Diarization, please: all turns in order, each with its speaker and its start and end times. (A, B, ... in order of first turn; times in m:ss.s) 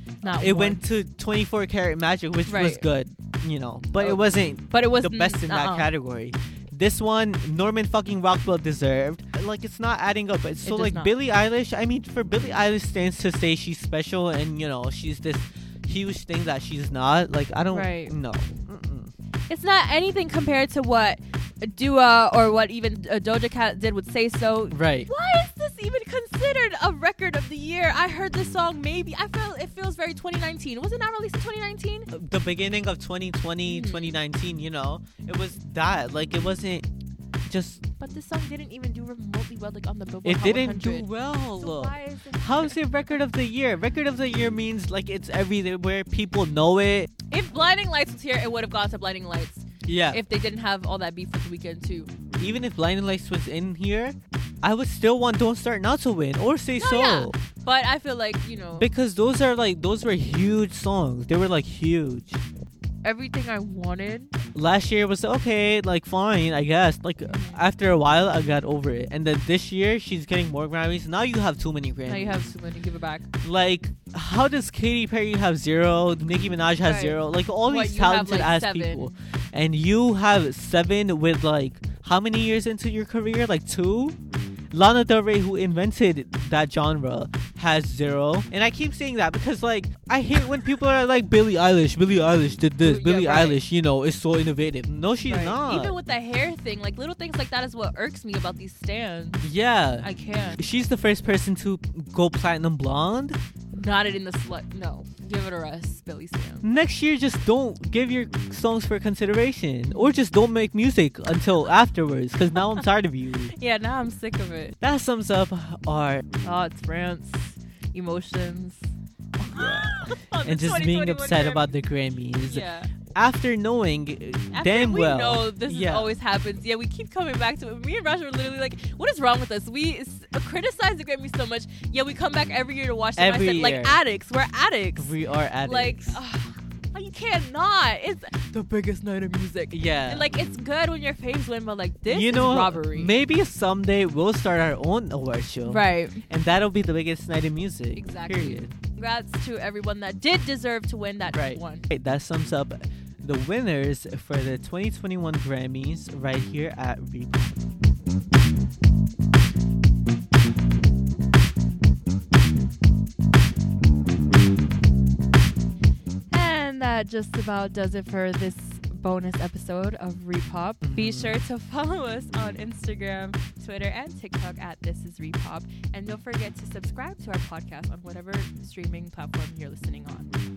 0:00.2-0:00.8 A
0:00.3-0:19.1 B
0:02.5-0:02.8 A
0:04.0-0:05.9 A
0:10.6-0:11.1 A
0:17.7-0:18.1 A
0:19.5-0:32.1 A
0:24.7-0:25.1 B
0:32.1-0:36.9 B
0:33.7-0:34.2 A
0:37.5-0:37.8 B
0:38.0-0:42.8 A
0:40.2-0:47.1 B
0:47.3-0:52.1 A
0:49.8-0:50.2 B
0:52.4-0:57.4 B
0:56.8-0:58.9 A
0:58.8-1:02.4 B
1:03.0-1:04.3 A
1:04.5-1:12.5 B
1:07.2-1:07.6 A
1:12.0-1:13.3 A
1:13.4-1:24.2 B
1:16.8-1:19.2 A
1:24.7-1:36.0 B
1:32.8-1:33.6 A
1:35.2-1:39.4 A
1:39.4-1:43.4 B
1:40.0-1:40.6 A
1:43.7-1:46.6 A
1:46.6-1:53.5 B
1:49.9-1:50.2 A
1:52.6-1:52.8 A
1:53.5-1:54.8 A
1:54.8-1:56.2 B
1:56.4-2:01.7 A
1:59.4-2:06.1 B
2:02.4-2:02.9 A
2:04.5-2:15.1 A
2:13.2-2:14.0 B
2:15.0-2:16.2 B
2:15.6-2:23.1 A
2:19.7-2:20.3 B
2:22.1-2:28.7 B
2:25.6-2:26.2 A
2:27.9-2:31.9 A
2:31.3-2:37.7 B
2:46.3-3:00.3 A
2:50.8-2:51.4 B